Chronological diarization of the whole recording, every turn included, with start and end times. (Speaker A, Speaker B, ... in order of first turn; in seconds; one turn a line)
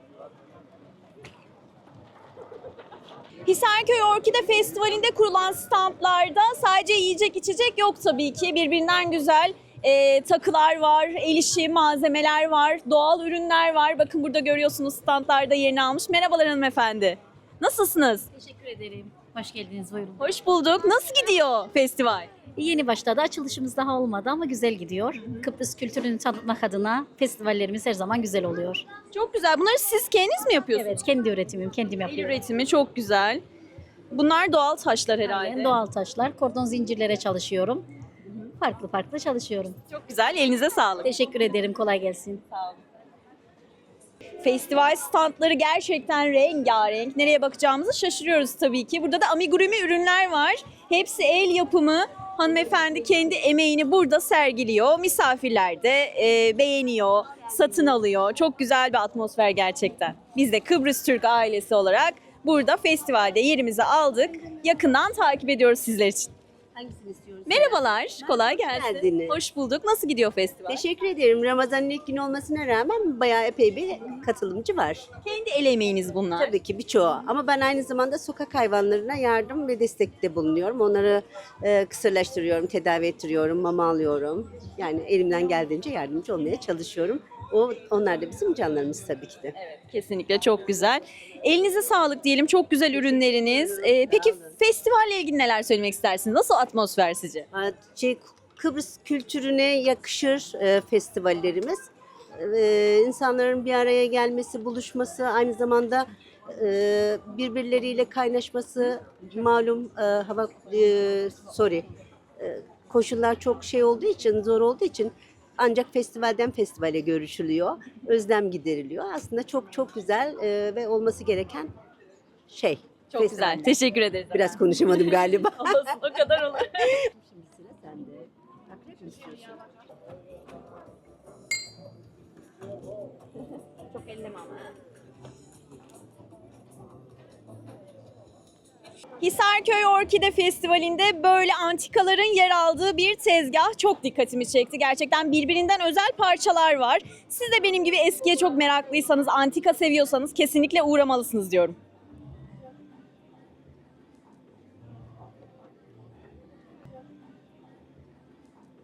Speaker A: 3.5-18.3
Speaker B: 18.3-20.2
Speaker A: 20.2-22.3
Speaker B: 22.5-28.8
Speaker A: 25.2-25.4
Speaker A: 29.1-31.0
Speaker B: 30.7-32.4
Speaker A: 32.0-33.4
Speaker A: 34.1-35.8
Speaker B: 35.2-37.9
Speaker B: 38.6-39.8
Speaker A: 39.9-41.1
Speaker B: 41.0-42.4
Speaker A: 42.5-42.8
Speaker A: 44.4-66.3
Speaker C: 66.7-69.4
Speaker A: 67.5-70.8
Speaker C: 70.7-75.0
Speaker A: 75.2-76.5
Speaker C: 76.4-89.5
Speaker A: 89.6-97.5
Speaker C: 93.0-94.5
Speaker C: 97.5-111.8
Speaker C: 112.4-121.7
Speaker C: 122.5-123.8
Speaker A: 123.1-126.9
Speaker C: 124.3-125.8
Speaker C: 126.8-129.5
Speaker A: 133.9-134.6
Speaker A: 139.2-151.8